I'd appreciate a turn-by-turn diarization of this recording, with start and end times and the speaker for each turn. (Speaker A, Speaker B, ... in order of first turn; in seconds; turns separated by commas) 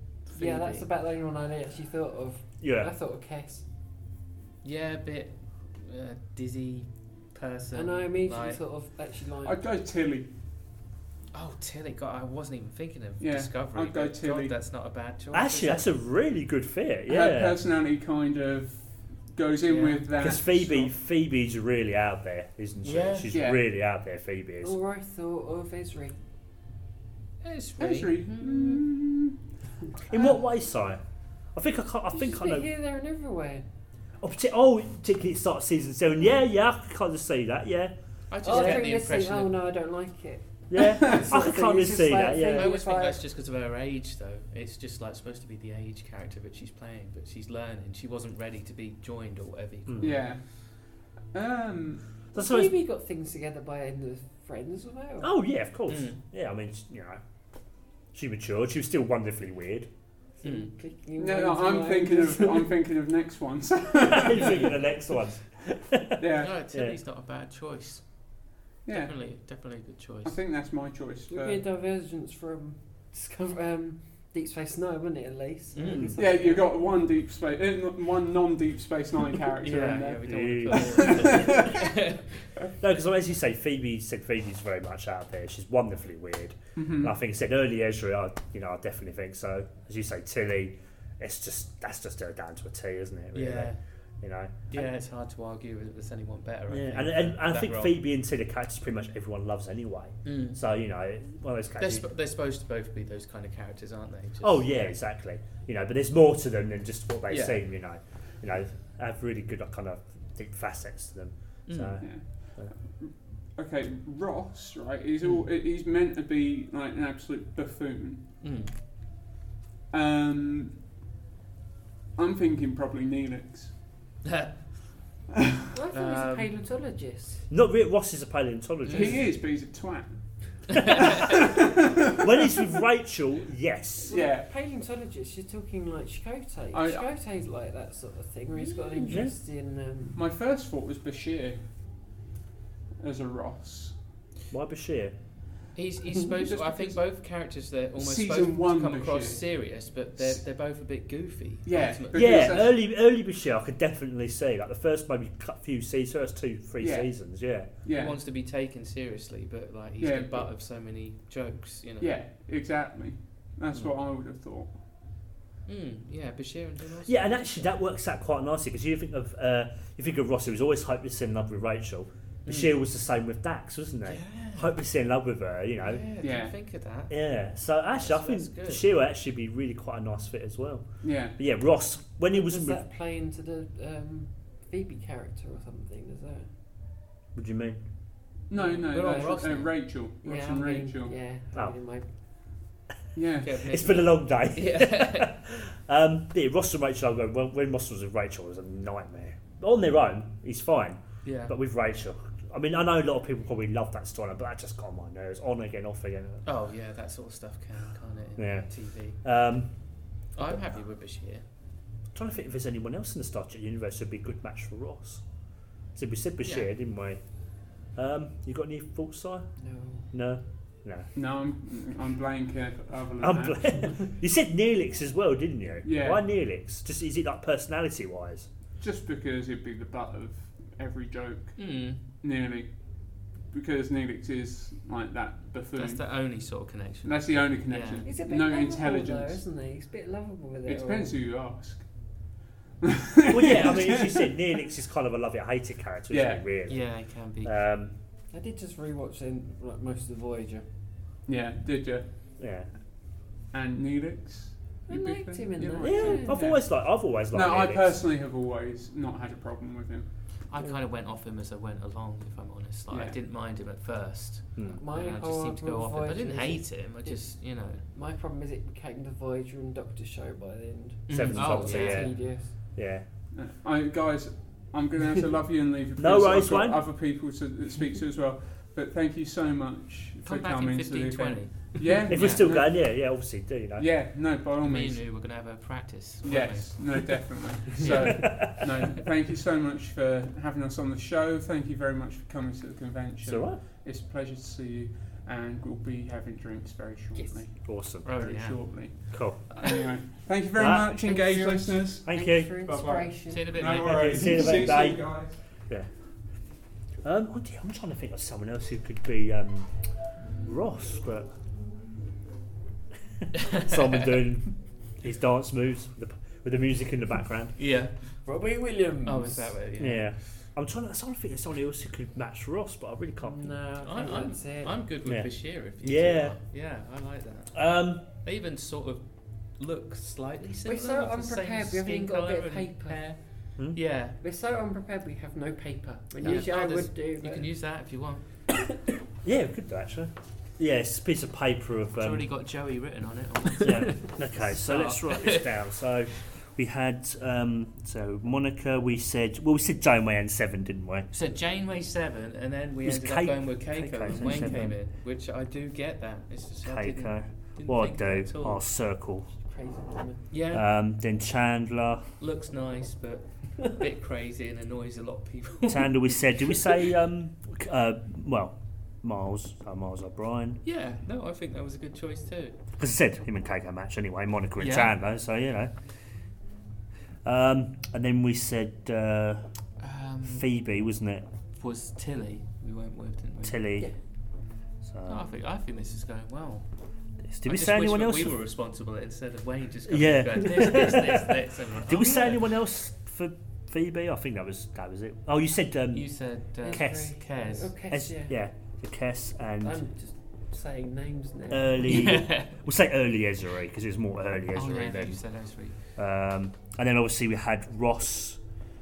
Speaker A: 0.3-0.9, Speaker B: 0.3-3.6, Speaker C: 2.6-2.9, Speaker A: 4.6-8.6, Speaker B: 7.7-9.6, Speaker D: 9.4-10.3, Speaker A: 11.3-15.9, Speaker D: 13.2-14.6, Speaker C: 15.3-17.6, Speaker D: 17.1-20.9, Speaker A: 19.7-20.1, Speaker C: 20.2-24.8, Speaker A: 22.8-23.3, Speaker D: 23.3-23.6, Speaker B: 24.6-26.2, Speaker A: 27.4-28.8, Speaker D: 27.8-29.4, Speaker C: 30.1-31.0, Speaker C: 31.6-32.7, Speaker B: 32.1-33.6, Speaker C: 34.2-38.9, Speaker A: 38.3-39.6, Speaker B: 38.4-43.2, Speaker C: 40.7-42.7, Speaker A: 42.5-50.3, Speaker C: 49.9-50.2, Speaker D: 50.0-50.4, Speaker D: 51.3-52.0, Speaker C: 52.3-52.8, Speaker B: 52.4-55.3, Speaker C: 55.2-57.2, Speaker A: 55.9-56.2, Speaker C: 58.1-59.9, Speaker B: 60.4-62.8, Speaker A: 60.4-60.7, Speaker D: 61.2-64.7, Speaker C: 64.0-67.0, Speaker D: 66.2-66.5, Speaker A: 66.4-68.0, Speaker D: 68.8-69.2, Speaker A: 68.9-70.4, Speaker D: 70.2-71.6, Speaker B: 71.3-76.7, Speaker A: 75.8-76.4, Speaker C: 75.9-76.2, Speaker D: 76.2-81.9, Speaker A: 79.6-82.5, Speaker C: 79.9-81.4, Speaker C: 82.8-94.8, Speaker D: 86.8-87.2, Speaker A: 93.3-93.8, Speaker A: 94.7-98.0, Speaker C: 96.7-102.1, Speaker A: 100.2-100.6, Speaker A: 101.8-104.9, Speaker C: 104.4-112.1, Speaker A: 107.3-107.6, Speaker A: 111.7-112.0, Speaker D: 112.0-118.2, Speaker A: 118.4-118.7, Speaker D: 119.9-120.8, Speaker D: 122.2-123.8, Speaker A: 124.2-124.5, Speaker B: 125.7-127.4, Speaker A: 125.9-126.5, Speaker C: 127.5-129.3, Speaker A: 128.9-129.3, Speaker D: 128.9-130.1, Speaker D: 130.7-132.2, Speaker A: 130.7-131.4, Speaker C: 132.2-134.2, Speaker B: 134.0-140.2, Speaker D: 134.1-134.5, Speaker D: 136.7-137.1, Speaker A: 138.6-139.2, Speaker C: 139.1-139.3, Speaker D: 140.2-141.6, Speaker D: 143.0-144.0, Speaker C: 144.5-145.2, Speaker A: 145.8-152.6, Speaker D: 146.3-147.0, Speaker D: 148.0-149.4, Speaker D: 151.7-152.8, Speaker C: 152.1-157.7, Speaker D: 156.8-157.1, Speaker D: 157.8-158.2, Speaker A: 157.9-162.2, Speaker D: 160.0-160.5, Speaker D: 162.0-164.8, Speaker A: 165.7-167.7, Speaker C: 167.1-176.1, Speaker A: 172.5-172.7, Speaker A: 174.1-174.7, Speaker A: 175.8-177.2, Speaker D: 176.2-176.5, Speaker C: 177.1-182.8, Speaker A: 177.9-178.8, Speaker D: 181.0-181.4, Speaker B: 182.3-186.5, Speaker C: 187.3-187.8, Speaker D: 188.5-191.2, Speaker B: 188.6-189.4, Speaker A: 188.9-189.8, Speaker B: 190.2-192.1, Speaker D: 193.2-193.5, Speaker A: 193.4-195.4, Speaker C: 193.6-206.4, Speaker A: 201.2-201.5, Speaker A: 206.4-209.2, Speaker C: 208.4-208.7, Speaker C: 209.2-209.7, Speaker A: 210.3-211.4, Speaker C: 212.1-215.2, Speaker C: 215.9-217.2, Speaker A: 216.4-216.7, Speaker C: 217.9-219.5, Speaker B: 219.6-220.1, Speaker C: 220.1-221.1, Speaker D: 221.2-224.0, Speaker C: 223.2-228.5, Speaker D: 225.8-226.2, Speaker D: 228.8-232.7, Speaker A: 231.6-232.0, Speaker D: 233.5-236.0, Speaker A: 235.8-238.1, Speaker D: 237.0-239.4, Speaker B: 238.0-241.1, Speaker D: 240.7-241.9, Speaker D: 242.8-244.3, Speaker C: 243.3-246.8, Speaker A: 243.4-243.8, Speaker D: 246.1-246.4, Speaker A: 246.7-247.5, Speaker C: 247.4-247.9, Speaker B: 248.3-250.7, Speaker D: 251.3-252.1, Speaker C: 252.4-252.7, Speaker D: 253.5-256.8, Speaker B: 254.9-256.4, Speaker C: 255.8-257.9, Speaker D: 257.3-260.1, Speaker A: 260.5-267.8, Speaker D: 262.9-263.2, Speaker C: 264.6-264.8, Speaker B: 264.7-267.2, Speaker B: 267.8-272.5, Speaker A: 271.1-272.1, Speaker C: 271.1-273.1, Speaker D: 273.3-282.8, Speaker C: 276.0-276.8, Speaker A: 280.2-282.5, Speaker C: 282.1-283.9, Speaker D: 283.8-285.0, Speaker A: 284.6-286.8, Speaker D: 286.2-302.1, Speaker A: 287.8-288.3, Speaker C: 287.9-288.6, Speaker C: 293.2-293.6, Speaker C: 297.6-298.1, Speaker A: 298.0-298.6, Speaker C: 299.1-299.4, Speaker C: 300.6-300.9, Speaker B: 300.7-303.6, Speaker C: 302.1-302.6, Speaker D: 302.6-305.4, Speaker A: 303.3-304.3, Speaker C: 303.6-305.9, Speaker C: 307.0-309.7, Speaker C: 310.4-311.3, Speaker A: 313.3-313.9, Speaker C: 313.5-317.6, Speaker A: 317.6-317.9, Speaker B: 318.3-319.5, Speaker A: 319.1-320.1, Speaker C: 319.8-323.6, Speaker B: 323.2-324.8, Speaker A: 323.8-327.6, Speaker C: 325.1-326.4, Speaker C: 327.5-328.1, Speaker A: 328.2-334.2, Speaker B: 330.7-333.0, Speaker B: 334.2-337.5, Speaker A: 336.2-338.2, Speaker C: 339.2-342.3, Speaker A: 342.0-345.5, Speaker C: 343.6-351.1, Speaker A: 351.1-358.6, Speaker C: 352.8-354.8, Speaker C: 356.6-359.3, Speaker B: 359.4-360.2, Speaker A: 360.3-360.7, Speaker C: 360.5-362.1, Speaker A: 362.2-366.7, Speaker C: 365.7-370.6, Speaker A: 370.6-372.6, Speaker C: 372.8-375.7, Speaker A: 374.6-374.9, Speaker C: 377.2-379.4, Speaker A: 379.8-380.5, Speaker C: 380.3-381.3, Speaker A: 381.6-383.6, Speaker C: 383.4-383.9, Speaker C: 384.8-385.3, Speaker A: 385.1-386.7, Speaker C: 387.2-388.4, Speaker A: 387.4-392.5, Speaker C: 389.9-396.1, Speaker A: 395.9-397.7, Speaker B: 396.6-398.3, Speaker C: 396.7-397.2, Speaker C: 397.9-399.8, Speaker B: 399.6-402.1, Speaker C: 401.5-405.2, Speaker A: 401.9-402.6, Speaker A: 404.5-405.8, Speaker C: 406.0-408.4